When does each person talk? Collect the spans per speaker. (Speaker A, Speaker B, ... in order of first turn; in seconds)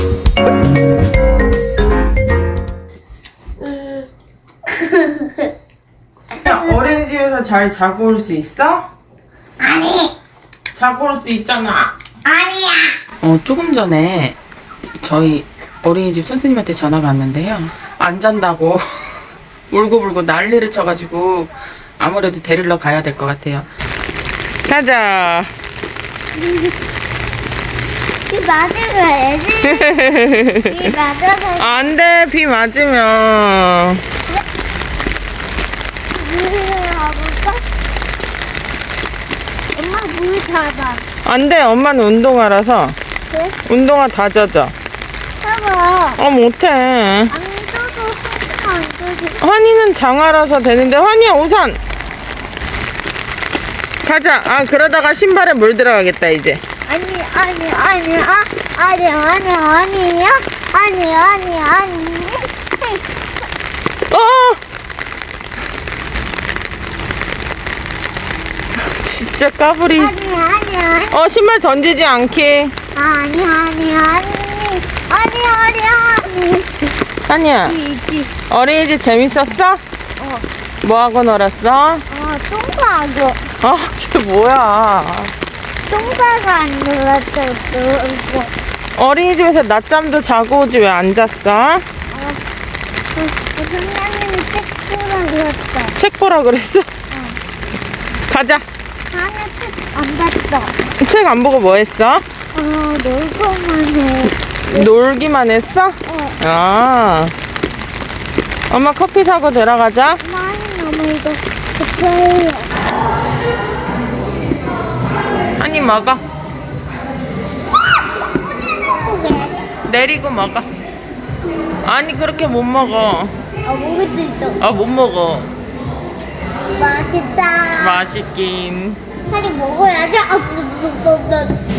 Speaker A: 4.8-5.4, 6.4-7.0, 9.6-10.1, 12.2-13.0, 28.3-30.0, 30.6-31.9, 36.1-37.6, 39.7-41.0, 43.3-43.6, 45.4-46.2, 47.3-49.4, 56.9-63.0, 70.0-71.2, 72.9-76.9, 77.7-78.3, 80.2-80.5, 82.1-83.5, 85.9-88.5, 92.1-92.4, 93.2-96.0, 97.1-97.4, 99.1-100.8, 102.5-104.9, 106.1-106.4, 110.2-112.7, 118.8-119.7, 123.7-124.6, 126.7-128.0, 129.3-131.5
Speaker B: 6.4-8.9, 10.8-11.9, 13.2-14.4, 15.0-23.7, 24.7-25.5, 29.7-30.8, 31.6-34.0, 41.2-43.0, 43.7-44.7, 46.2-47.3, 49.4-51.8, 54.0-56.6, 64.1-64.6, 68.8-70.1, 71.1-72.7, 77.3-77.8, 78.5-79.8, 80.8-82.0, 83.6-85.3, 89.0-91.8, 96.0-96.9, 98.3-98.7, 101.0-102.2, 104.7-107.3, 108.7-110.2, 115.6-116.2, 119.9-120.7, 121.8-123.3, 124.6-125.5, 127.8-129.0